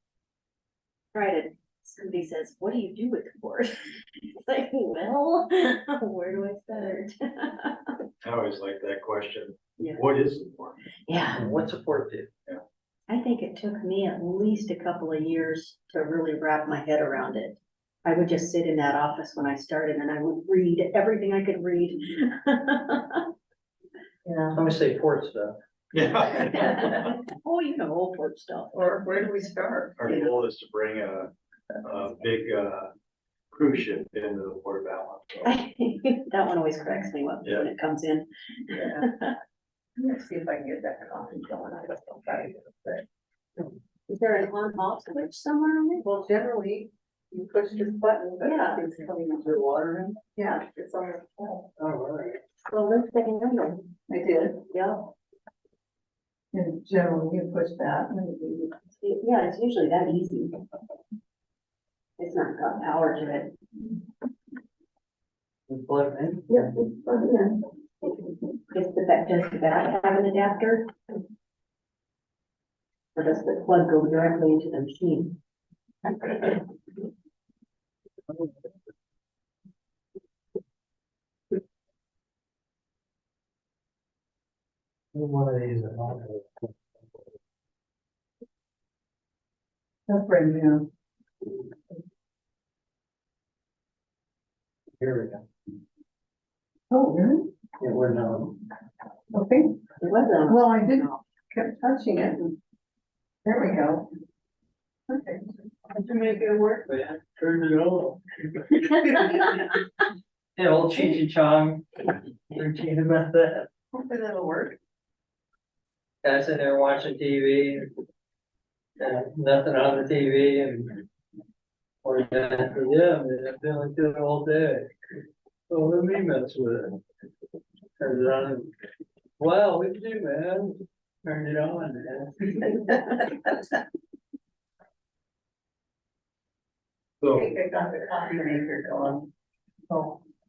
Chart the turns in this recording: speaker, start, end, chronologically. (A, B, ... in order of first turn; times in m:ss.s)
0:01.1-0:08.0 A
0:08.2-0:10.8 B
0:09.8-0:10.0 A
0:11.0-0:11.4 A
0:11.3-0:12.3 C
0:13.1-0:23.3 A
0:24.2-0:24.6 D
0:24.5-0:25.6 C
0:25.9-0:27.1 B
0:26.4-0:28.8 A
0:28.7-0:30.0 D
0:30.0-0:31.3 B
0:31.8-0:32.9 B
0:33.5-0:35.6 B
0:35.4-0:39.3 A
0:38.7-0:39.0 D
0:40.0-0:43.0 D
0:44.1-0:46.0 A
0:46.0-0:49.5 D
0:48.4-0:48.8 A
0:49.4-0:50.2 C
0:50.4-0:51.7 D
0:51.8-0:52.4 C
0:52.7-0:53.9 A
0:54.1-0:54.6 D
0:54.7-0:55.1 A
0:56.5-0:58.7 D
0:59.0-1:00.6 A
1:02.2-1:03.5 A
1:05.7-1:06.6 C
1:06.5-1:08.2 A
1:08.7-1:10.9 A
1:13.1-1:15.4 A
1:16.1-1:16.6 A
1:25.1-1:27.0 C
1:30.1-1:30.9 D
1:35.0-1:35.4 C
1:36.9-1:37.5 D
1:37.8-1:38.6 C
1:39.3-1:39.8 D
1:40.0-1:41.2 A
1:40.5-1:42.6 D
1:43.4-1:44.1 D
1:45.1-1:45.4 D
1:45.9-1:49.6 C
1:50.6-1:53.7 C
1:53.9-1:54.8 D
1:56.2-1:57.9 C
1:59.0-2:01.0 C
2:02.0-2:04.9 C
2:05.7-2:07.0 C
2:08.0-2:08.7 C
2:09.4-2:13.3 C
2:17.2-2:17.5 B
2:17.3-2:19.3 D
2:19.9-2:20.2 D